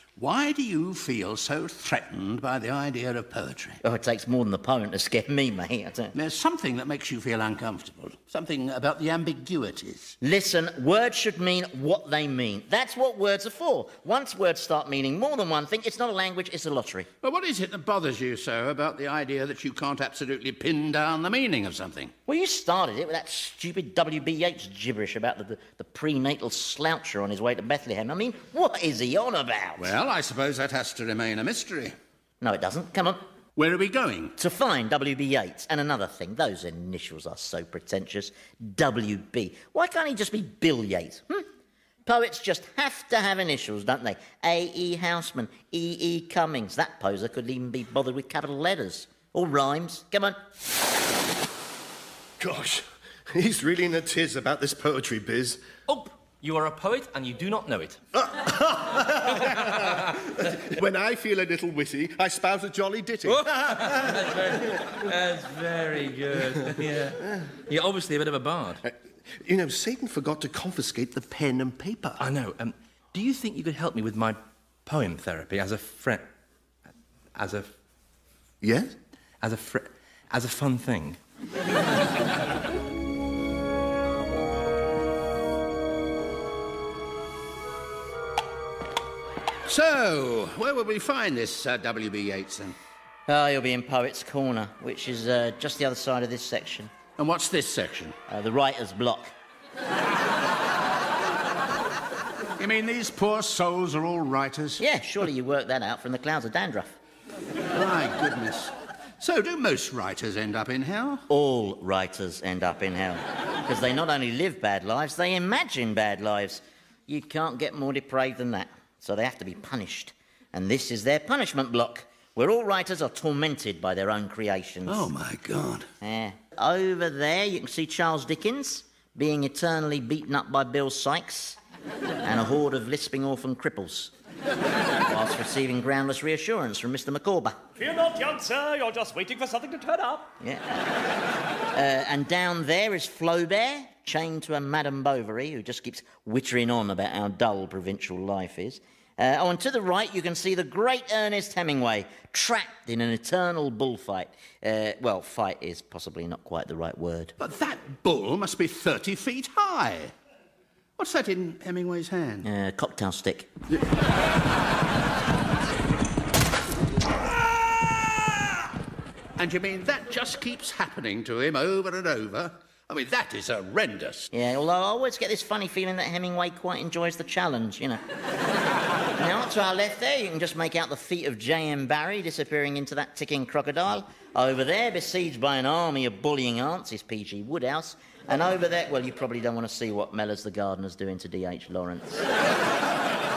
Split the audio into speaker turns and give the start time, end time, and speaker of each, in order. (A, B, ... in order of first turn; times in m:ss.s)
0:00.2-0:03.8 A
0:03.8-0:06.1 B
0:06.1-0:10.2 A
0:10.2-0:17.1 B
0:17.2-0:22.1 A
0:22.3-0:29.9 B
0:29.8-0:31.9 A
0:32.4-0:33.2 B
0:33.6-0:34.3 A
0:34.4-0:41.4 B
0:42.0-0:50.4 B
0:52.4-0:55.6 C
0:55.9-0:58.0 D
0:58.1-1:05.1 C
0:59.3-1:00.2 D
1:03.2-1:08.8 D
1:06.6-1:07.5 C
1:08.8-1:12.2 C
1:12.2-1:16.2 D
1:17.3-1:17.7 D
1:18.6-1:18.9 C
1:19.4-1:21.2 D
1:29.6-1:32.8 A
1:33.3-1:36.9 B
1:37.2-1:38.2 A
1:38.3-1:39.3 B
1:42.6-1:44.8 A
1:44.8-1:47.0 B
1:47.7-1:51.2 A
1:51.3-2:05.1 B
2:04.9-2:05.9 A
2:06.0-2:11.6 B
2:12.2-2:14.1 B
2:15.0-2:17.6 B
2:17.8-2:20.3 E
2:20.4-2:20.8 B
2:21.7-2:37.3 B
2:37.4-2:40.1 A
2:41.0-2:42.4 A
2:42.4-2:43.5 B
2:49.4-2:54.3 A
2:54.3-2:58.0 B
2:59.2-3:12.2 B